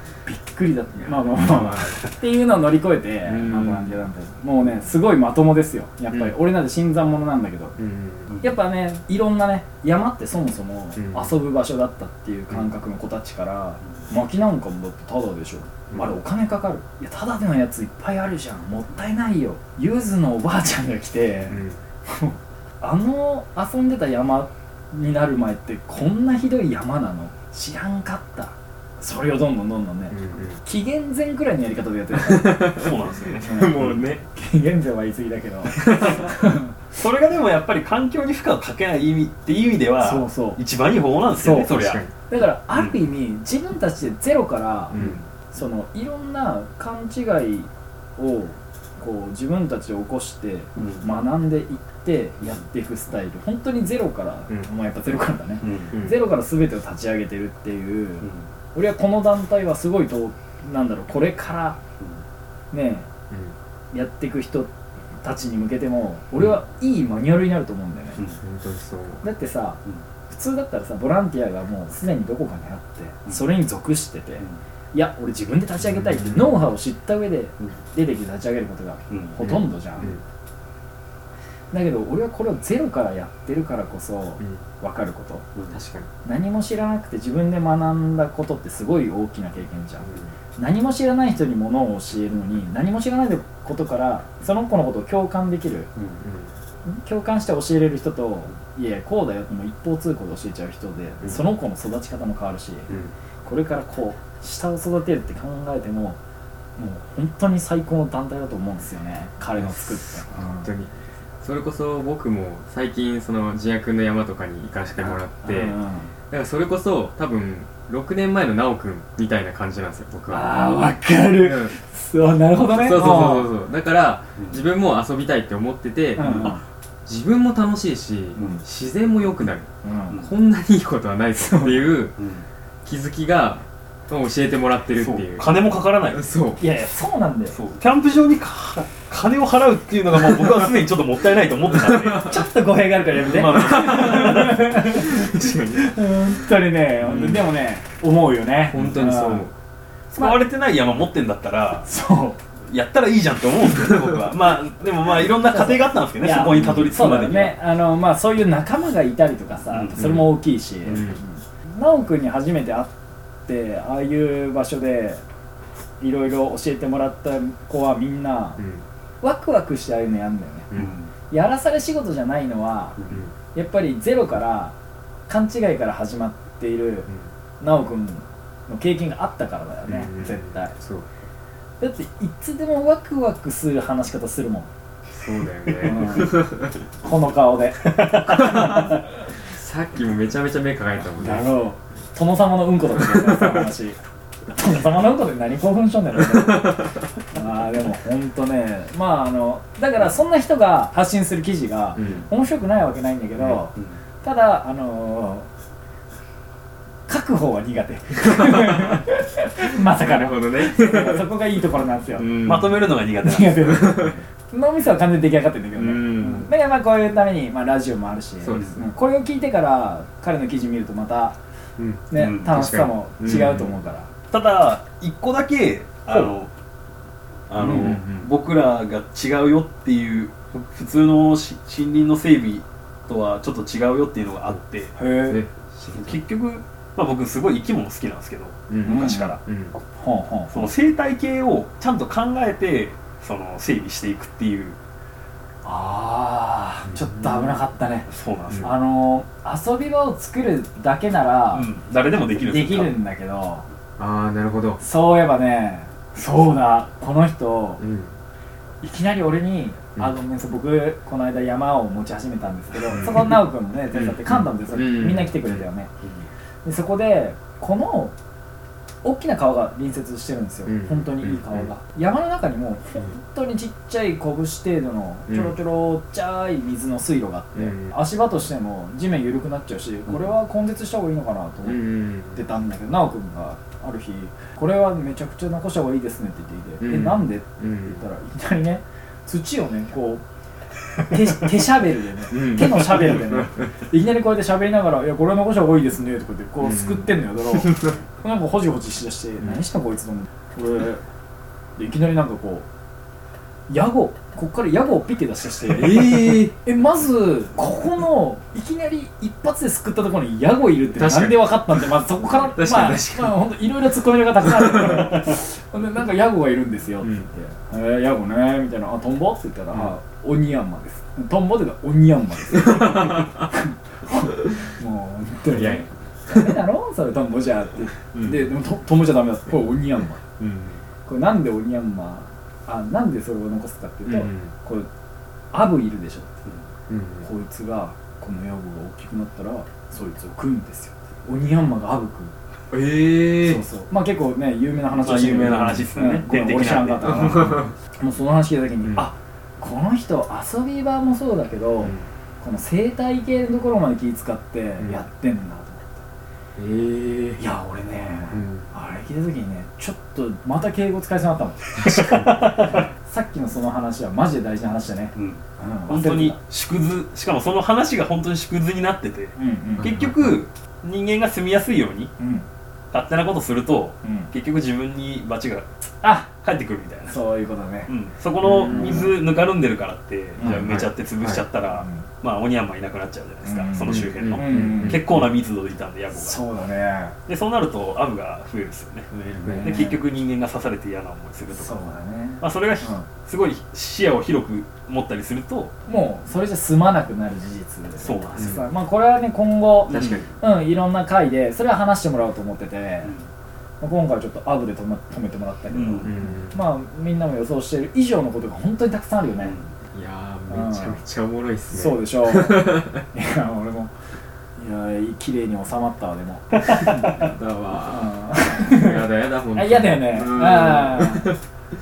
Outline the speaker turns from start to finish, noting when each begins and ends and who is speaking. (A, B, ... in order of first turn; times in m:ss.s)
0:00.2-0:07.8 A
0:01.0-0:02.0 B
0:03.2-0:04.0 B
0:07.8-0:08.3 B
0:08.3-0:08.5 C
0:08.4-0:32.9 A
0:11.0-0:11.3 B
0:21.5-0:21.8 B
0:30.1-0:30.6 B
0:32.2-0:34.3 B
0:32.7-0:34.0 C
0:33.4-0:36.8 A
0:35.8-0:36.3 B
0:36.9-0:42.0 C
0:40.0-0:40.6 A
0:41.3-1:01.8 A
0:41.7-0:42.1 B
0:42.7-0:43.0 C
0:44.9-0:45.2 B
0:44.9-0:45.3 C
0:50.8-0:51.1 C
0:55.6-0:55.9 C
1:02.7-1:03.1 A
1:03.3-1:03.6 B
1:03.9-1:04.7 A
1:05.2-1:08.2 A
1:08.4-1:09.2 B
1:09.2-1:20.2 A
1:15.9-1:16.6 B
1:19.1-1:19.4 C
1:19.4-1:20.2 B
1:21.7-1:25.4 A
1:25.7-1:26.1 B
1:26.2-1:35.9 A
1:30.0-1:30.3 B
1:36.2-1:36.5 B
1:36.8-1:42.9 A
1:42.9-1:43.1 B
1:43.4-1:46.2 A
1:46.8-1:50.7 A
1:49.6-1:55.8 B
1:55.0-1:56.1 A
1:56.3-2:00.8 B
2:00.3-2:03.5 A
2:01.4-2:01.7 B
2:02.7-2:12.2 B
2:04.4-2:04.6 C
2:06.2-2:06.6 A
2:06.2-2:06.6 C
2:08.4-2:08.6 C
2:09.8-2:10.2 A
2:11.4-2:12.0 A
2:12.2-2:12.4 C
2:12.8-2:16.6 B
2:15.0-2:16.3 C
2:16.6-2:17.6 A
2:17.5-2:22.4 C
2:21.7-2:22.4 B
2:22.2-2:29.4 A
2:23.1-2:24.7 C
2:23.2-2:26.0 B
2:27.0-2:27.5 B
2:28.6-2:29.5 B
2:30.1-2:31.9 C
2:30.2-2:30.4 A
2:31.8-2:32.4 A
2:32.7-2:37.6 C
2:35.5-2:42.9 A
2:36.5-2:36.9 B
2:39.7-2:40.0 C
2:40.0-2:41.2 B
2:43.4-2:45.2 A
2:46.0-2:48.6 A
2:48.6-2:48.8 B
2:49.2-2:50.7 A
2:50.7-2:51.1 C
2:51.3-2:53.0 A
2:53.5-2:54.7 A
2:55.3-2:57.1 A
2:57.6-3:00.7 A
2:59.8-3:01.1 B
3:01.8-3:04.7 A
3:05.1-3:06.7 B
3:05.7-3:09.0 A
3:08.4-3:11.6 B
3:11.0-3:25.5 A
3:13.2-3:13.7 B
3:22.0-3:22.2 B
3:23.8-3:24.0 C
3:27.1-3:32.5 A
3:28.2-3:29.0 B
3:29.7-3:31.3 B
3:32.2-3:32.8 B
3:32.4-3:34.0 C
3:33.2-3:41.4 A
3:33.8-3:34.2 B
3:35.7-3:36.5 B
3:38.4-3:38.8 B
3:41.8-3:43.8 B
3:42.1-3:44.1 A
3:42.2-3:42.5 C
3:44.3-3:46.5 C
3:47.5-3:55.0 C
3:47.6-3:48.3 B
3:47.6-3:47.9 A
3:55.0-3:55.4 A
3:55.2-3:56.2 B
3:55.9-3:59.4 C
3:58.7-3:59.8 B
3:58.8-3:59.4 A
3:59.9-4:00.7 A
4:00.5-4:04.8 C
4:05.6-4:08.1 A
4:06.9-4:07.4 B
4:08.1-4:08.8 C
4:08.6-4:11.7 A
4:11.5-4:13.0 C
4:12.5-4:13.6 A
4:14.0-4:14.8 B
4:14.8-4:17.8 A
4:17.8-4:18.2 B
4:18.8-4:25.9 A
4:22.9-4:25.7 B
4:26.0-4:26.3 C
4:26.6-4:28.1 A
4:29.0-4:50.2 A
4:30.6-4:31.7 B
4:35.3-4:35.5 B
4:37.5-4:38.0 B
4:41.6-4:42.4 B
4:46.8-4:48.0 B
4:51.0-5:01.0 A
4:52.3-4:53.7 B
4:56.6-4:57.9 B
5:01.8-5:02.7 A
5:03.7-5:30.2 A
5:05.7-5:06.6 B
5:10.9-5:13.4 B
5:14.5-5:15.1 B
5:17.0-5:17.3 B
5:22.6-5:23.4 B
5:25.5-5:26.6 B
5:28.1-5:28.5 B
5:30.4-5:30.8 B
5:31.0-5:34.9 A
5:34.0-5:34.5 B
5:35.5-5:36.4 A
5:36.9-5:37.3 B
5:37.2-5:42.3 A
5:42.7-5:43.6 B
5:43.4-5:56.0 A
5:45.0-5:47.4 C
5:45.5-5:45.9 B
5:47.0-5:47.7 B
5:48.8-5:49.1 B
5:51.8-5:52.1 B
5:56.6-5:57.5 B
5:57.4-6:06.4 A
5:58.3-5:58.7 B
6:01.8-6:02.9 C
6:02.0-6:02.3 B
6:05.2-6:12.1 C
6:09.4-6:09.9 A
6:09.8-6:10.4 B
6:12.2-6:12.4 A
6:12.9-6:15.7 C
6:14.0-6:14.3 A
6:16.0-6:16.3 A
6:16.3-6:17.2 C
6:17.1-6:17.9 A
6:17.9-6:26.4 C
6:18.4-6:19.1 B
6:18.5-6:19.1 A
6:20.4-6:20.7 A
6:20.4-6:21.4 B
6:21.8-6:22.0 A
6:23.4-6:25.0 A
6:23.9-6:25.2 B
6:26.1-6:27.2 A
6:27.3-6:31.8 C
6:29.4-6:30.0 A
6:29.5-6:29.8 B
6:31.5-6:33.0 A
6:32.4-6:35.7 C
6:35.8-6:43.1 A
6:38.0-6:38.5 C
6:38.4-6:38.6 B
6:39.9-6:40.3 B
6:39.9-6:40.3 C
6:43.8-6:49.5 A
6:45.7-6:46.1 C
6:46.0-6:46.6 B
6:49.4-6:49.7 C
6:49.9-6:53.0 B
6:50.5-6:51.0 A
6:51.7-6:53.9 A
6:54.6-6:57.2 A
6:57.0-7:01.4 B
6:57.9-7:01.4 A